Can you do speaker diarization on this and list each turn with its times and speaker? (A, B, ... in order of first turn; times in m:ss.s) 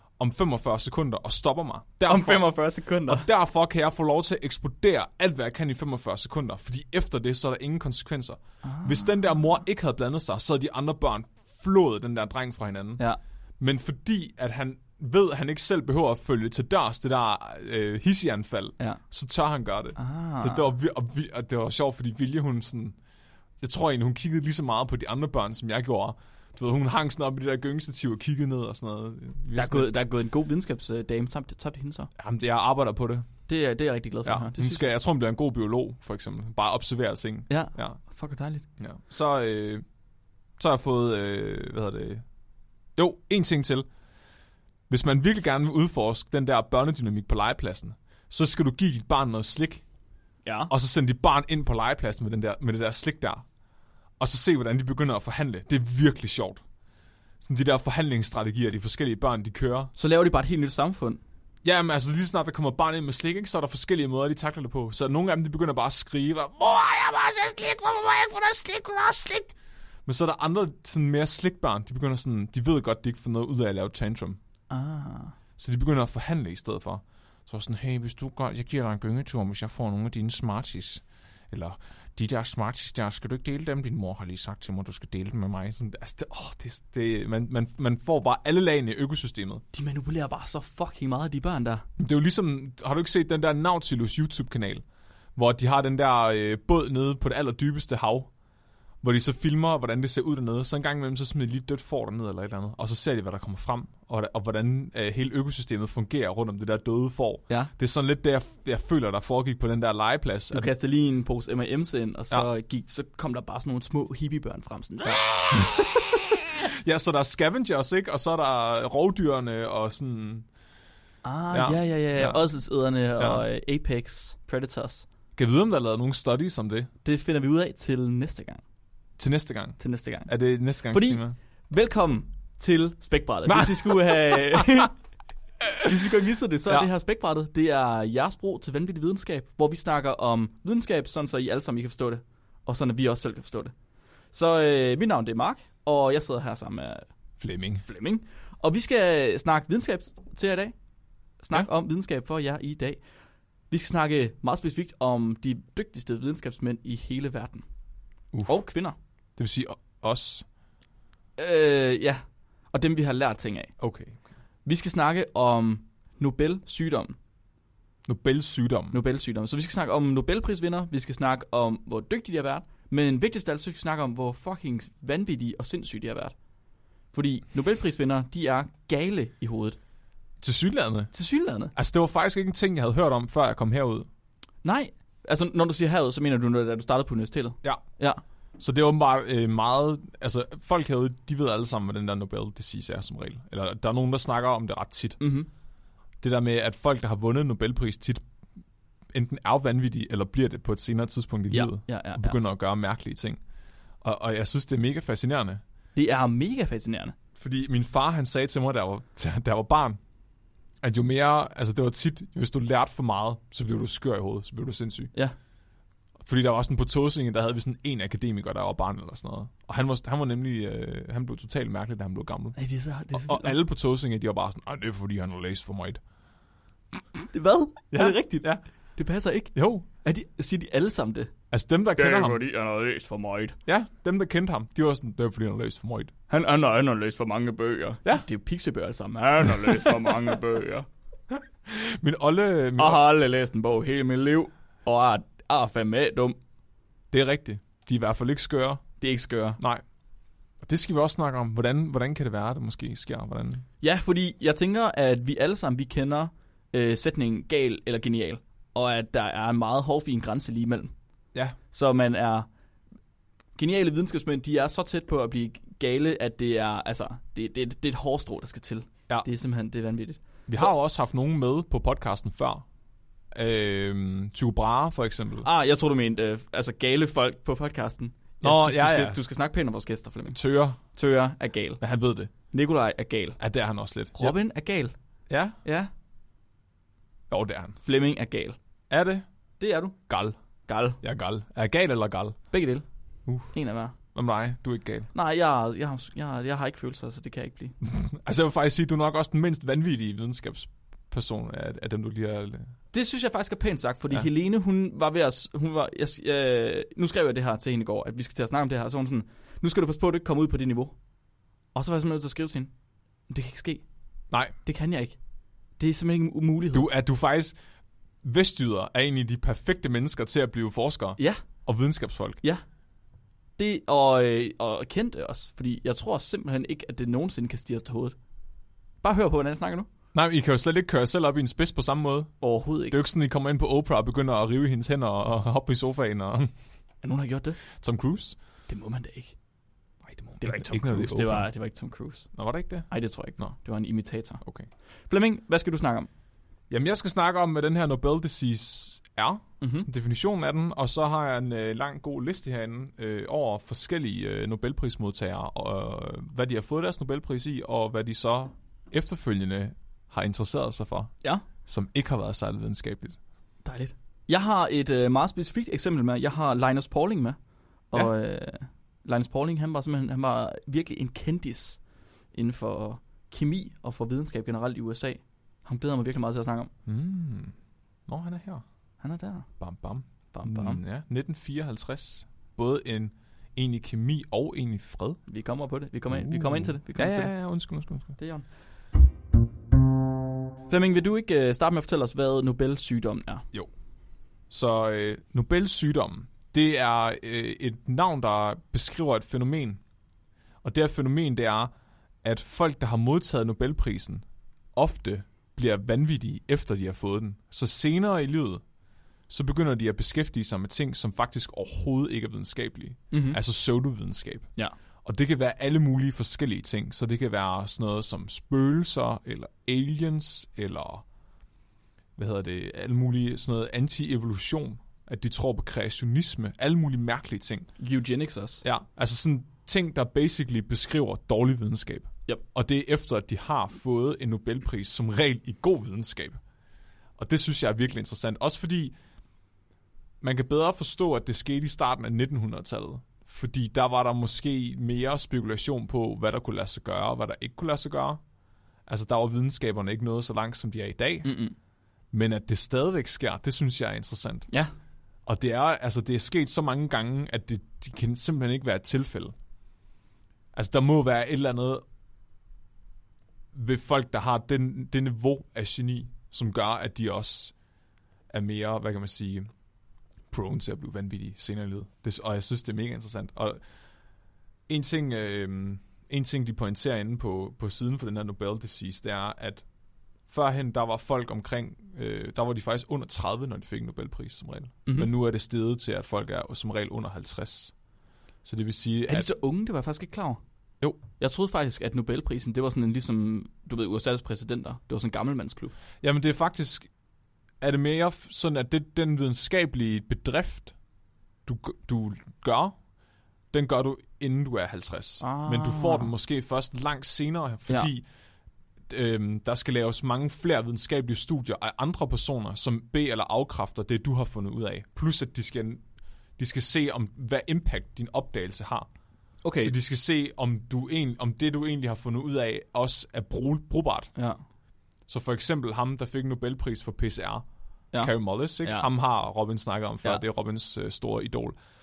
0:00.2-0:02.5 A
0:02.1-0:03.2 B
0:03.0-0:13.0 A
0:08.6-0:09.1 B
0:13.6-0:23.0 A
0:20.0-0:20.7 B
0:23.6-0:29.9 A
0:29.5-0:32.1 B
0:32.2-0:33.3 A
0:33.5-0:34.9 B
0:34.2-0:38.0 A
0:37.5-0:38.6 B
0:38.8-0:39.8 A
0:40.6-0:42.2 A
0:43.0-0:43.9 A
0:44.9-0:49.8 A
0:50.4-0:50.7 B
0:50.7-0:53.4 A
0:54.2-0:56.6 A
0:57.4-0:59.9 A
1:00.0-1:01.2 B
1:01.6-1:09.5 A
1:10.0-1:14.4 A
1:14.7-1:15.4 B
1:15.6-1:29.6 A
1:29.7-1:31.8 B
1:32.0-1:34.8 A
1:35.4-1:38.3 A
1:39.0-1:50.7 A
1:50.5-1:55.9 B
1:55.0-2:00.5 A
2:01.2-2:05.1 B
2:01.5-2:02.4 A
2:05.4-2:06.9 A
2:07.0-2:08.6 B
2:09.2-2:11.4 A
2:09.8-2:10.3 B
2:10.9-2:14.9 B
2:13.4-2:14.9 A
2:15.6-2:15.9 A
2:15.8-2:23.7 B
2:24.3-2:27.0 B
2:27.4-2:27.8 A
2:27.8-2:30.7 B
2:31.4-2:33.0 B
2:33.7-2:37.6 B
2:38.5-2:39.0 B
2:39.4-2:40.4 A
2:41.4-2:42.2 B
2:42.7-2:43.7 B
2:43.8-2:44.2 A
2:44.6-2:47.2 B
2:48.0-2:49.0 A
2:48.9-2:56.3 B
2:57.1-2:59.8 B
3:00.4-3:01.1 A
3:01.1-3:01.7 B
3:01.7-3:04.1 A
3:04.6-3:08.2 B
3:08.6-3:15.2 A
3:15.2-3:15.5 B
3:16.2-3:18.2 A
3:19.1-3:23.4 A
3:21.5-3:22.4 B
3:24.0-3:25.6 A
3:26.0-3:27.2 B
3:27.4-3:30.0 A
3:30.8-3:35.1 A
3:36.2-3:42.6 A
3:42.6-3:43.6 B
3:43.1-3:46.0 A
3:47.2-3:51.3 B
3:47.9-3:48.6 A
3:49.5-3:49.8 A
3:51.5-3:52.4 A
3:51.9-3:53.6 B
3:53.6-3:56.1 A
3:56.3-4:00.9 B
3:59.6-4:00.2 A
4:01.3-4:03.0 A
4:02.8-4:06.4 B
4:07.1-4:08.8 A
4:09.0-4:09.6 B
4:10.6-4:13.6 A
4:13.8-4:20.9 B
4:21.7-4:22.5 B
4:23.6-4:30.7 B
4:30.5-4:32.6 A
4:33.3-4:35.5 A
4:35.4-4:41.8 B
4:38.4-4:39.2 A
4:40.3-4:40.8 A
4:41.8-4:42.3 A
4:42.5-4:43.4 B
4:43.4-4:44.4 A
4:44.1-4:44.9 B
4:45.3-4:45.6 A
4:45.6-4:45.9 B
4:47.3-4:47.8 A
4:47.8-4:48.6 B
4:48.9-4:49.2 A
4:49.6-4:50.0 B
4:50.1-4:50.4 A
4:50.7-4:51.0 B
4:51.0-4:52.4 A
4:52.5-4:52.8 B
4:53.2-4:53.5 A
4:53.5-4:53.9 B
4:54.1-4:55.1 A
4:55.1-4:57.8 B
4:57.8-5:02.7 A
5:02.9-5:10.9 B
5:11.7-5:12.7 B
5:13.3-5:13.8 B
5:14.6-5:15.2 B
5:15.8-5:16.9 B
5:16.7-5:17.6 A
5:18.2-5:22.4 A
5:21.2-5:21.4 B
5:23.6-5:28.2 B
5:29.0-5:29.9 B
5:30.1-5:32.3 A
5:32.4-5:33.0 B
5:32.9-5:36.5 A
5:37.0-5:37.6 B
5:37.8-5:38.4 A
5:38.7-5:39.3 B
5:40.0-5:41.5 A
5:40.4-5:42.3 B
5:42.3-5:43.5 A
5:42.9-5:44.4 B
5:44.4-5:44.7 A
5:45.1-5:46.1 B
5:46.7-6:01.1 A
5:49.6-5:49.9 B
6:01.6-6:03.2 A
6:03.6-6:07.4 B
6:07.9-6:11.8 B
6:12.3-6:16.7 B
6:16.8-6:17.5 A
6:18.1-6:18.6 A
6:19.0-6:19.5 B
6:19.6-6:25.2 A
6:20.3-6:20.8 B
6:25.3-6:27.3 B
6:26.1-6:28.2 A
6:28.2-6:28.4 B
6:30.7-6:33.4 B
6:34.5-6:39.8 A
6:40.6-6:41.7 A
6:42.2-6:48.6 A
6:49.3-6:54.5 A
6:53.1-6:53.4 B
6:55.0-7:01.0 A
7:02.2-7:07.7 A
7:07.8-7:08.6 B
7:08.6-7:16.4 A
7:17.2-7:18.9 A
7:20.2-7:28.2 A
7:28.9-7:31.3 A
7:31.2-7:31.5 B
7:32.1-7:34.5 A
7:35.2-7:39.3 A
7:40.5-7:41.8 A
7:43.5-7:47.5 A
7:48.3-7:49.5 A
7:50.3-7:53.6 A
7:54.7-7:59.6 A
8:00.3-8:07.7 A
8:08.4-8:09.3 A
8:09.1-8:10.4 B
8:11.2-8:15.7 B
8:16.0-8:16.9 A
8:17.6-8:20.7 A
8:21.4-8:22.7 A
8:23.5-8:28.0 A
8:25.2-8:26.1 B
8:28.9-8:35.8 A
8:36.4-8:38.9 A
8:39.4-8:39.7 B
8:39.6-8:44.1 A
8:45.1-8:47.4 A
8:47.9-8:48.9 B
8:48.0-8:51.6 A